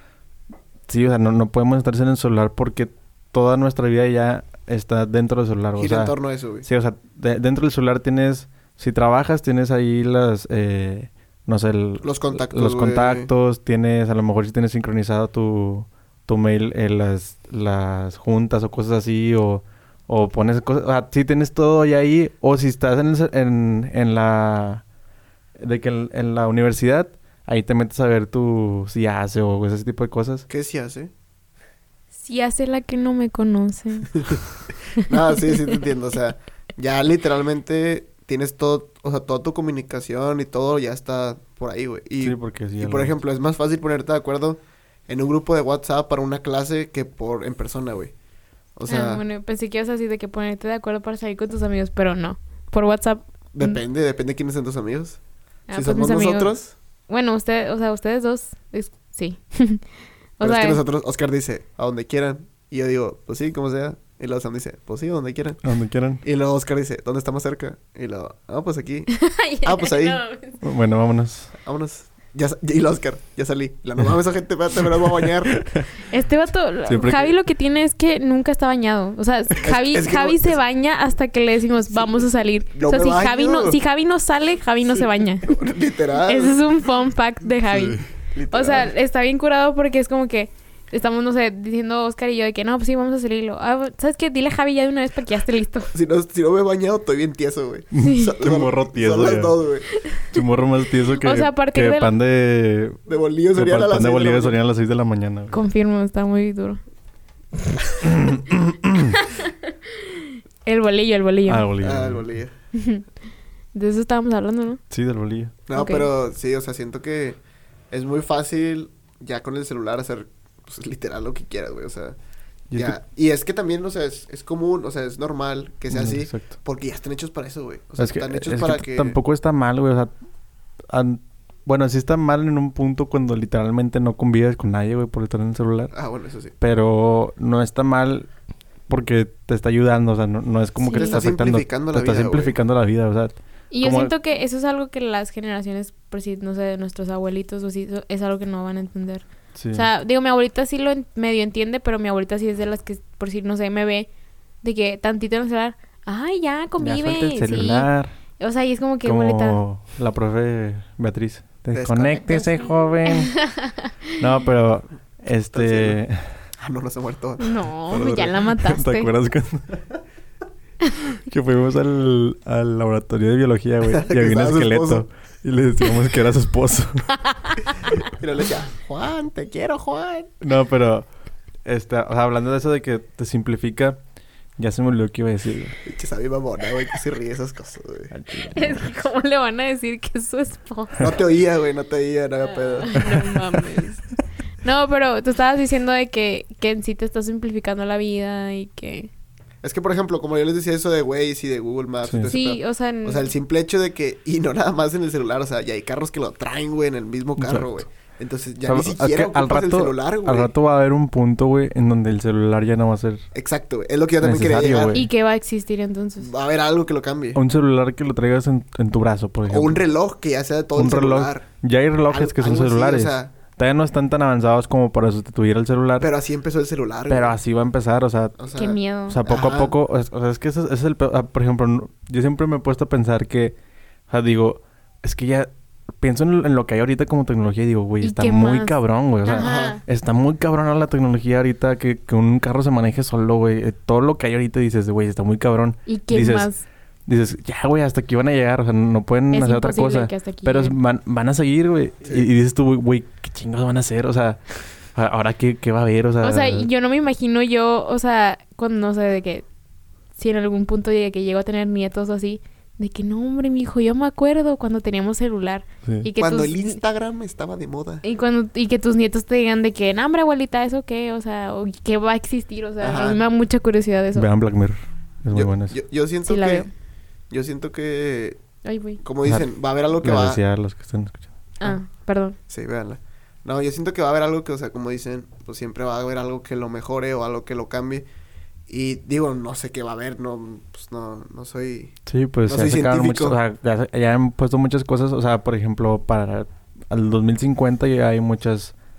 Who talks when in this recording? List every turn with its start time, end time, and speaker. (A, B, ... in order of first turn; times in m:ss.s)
0:00.9-0:24.8 A
0:05.8-0:06.6 B
0:12.0-0:13.3 B
0:25.6-0:30.5 A
0:30.5-0:31.1 B
0:32.2-0:34.3 C
0:35.0-0:48.1 B
0:35.0-0:35.8 C
0:42.2-0:43.1 A
0:48.7-0:49.2 B
0:48.9-0:53.8 C
0:53.5-0:55.2 B
0:55.7-0:56.5 C
0:55.7-0:56.7 B
0:57.1-0:59.8 C
1:00.4-1:00.8 C
1:00.4-1:05.6 B
1:05.6-1:06.2 A
1:06.2-1:10.2 B
1:09.1-1:10.6 C
1:10.6-1:11.5 A
1:11.6-1:15.8 B
1:15.2-1:15.8 A
1:16.0-1:25.6 C
1:16.8-1:17.3 A
1:19.6-1:20.6 B
1:21.9-1:23.8 B
1:25.4-1:26.6 B
1:26.2-1:35.9 C
1:28.3-1:28.9 B
1:35.9-1:39.9 B
1:37.9-1:39.6 A
1:38.0-1:38.3 C
1:40.3-1:43.0 A
1:41.1-1:42.1 C
1:43.0-1:44.6 B
1:43.5-1:45.6 A
1:45.5-1:46.8 C
1:48.0-1:49.2 A
1:50.1-1:51.7 C
1:51.5-1:52.4 A
1:51.8-1:52.5 B
1:52.7-1:53.0 C
1:53.7-1:54.8 C
1:54.9-1:55.5 A
1:55.7-1:57.4 B
1:55.7-1:56.1 C
1:57.9-2:02.2 B
2:02.7-2:03.0 A
2:02.7-2:09.2 B
2:05.9-2:06.5 A
2:08.0-2:10.1 A
2:10.9-2:15.9 A
2:15.9-2:16.5 B
2:16.6-2:18.3 A
2:18.9-2:24.1 A
2:20.8-2:21.2 C
2:20.9-2:22.6 B
2:23.7-2:34.1 C
2:29.6-2:29.8 A
2:34.6-2:39.6 C
2:36.8-2:38.1 A
2:39.0-2:43.3 A
2:41.7-2:42.4 B
2:43.1-2:43.9 C
2:44.2-2:46.3 A
2:45.5-2:46.0 B
2:46.6-2:48.2 B
2:47.4-2:49.1 C
2:47.9-2:49.9 A
2:51.2-2:57.1 A
2:53.8-2:55.0 B
2:57.1-2:58.0 C
2:58.0-3:00.3 B
3:00.4-3:01.1 A
3:01.6-3:04.0 A
3:04.6-3:05.8 A
3:05.8-3:08.1 B
3:08.1-3:08.8 A
3:08.5-3:11.1 C
3:11.0-3:13.3 B
3:12.5-3:14.1 C
3:14.6-3:19.1 C
3:19.6-3:30.5 B
3:22.0-3:22.3 A
3:22.3-3:23.3 C
3:27.4-3:27.8 A
3:28.6-3:33.2 A
3:33.3-3:35.0 B
3:34.2-3:35.1 A
3:34.9-3:36.3 C
3:36.2-3:37.4 B
3:37.3-3:39.8 A
3:39.5-3:41.4 B
3:40.7-3:46.1 A
3:42.1-3:43.3 B
3:46.0-3:47.4 B
3:47.1-3:48.4 A
3:48.4-3:49.7 B
3:48.5-3:49.2 C
3:49.1-3:53.6 A
3:54.1-4:06.5 A
3:58.0-3:59.8 C
3:59.4-3:59.8 B
4:05.9-4:06.6 C
4:07.0-4:16.7 A
4:09.3-4:10.8 C
4:16.2-4:19.4 C
4:20.2-4:26.8 C
4:26.2-4:28.0 B
4:28.0-4:34.3 C
4:32.8-4:33.2 B
4:34.1-4:35.8 A
4:35.3-4:36.7 B
4:36.2-4:36.7 C
4:37.3-4:38.4 B
4:38.6-4:39.0 C
4:39.0-4:40.4 B
4:40.0-4:41.3 A
4:41.6-4:42.4 C
4:42.5-4:48.0 B
4:48.7-4:52.0 B
4:52.0-4:58.7 A
4:52.5-4:53.4 B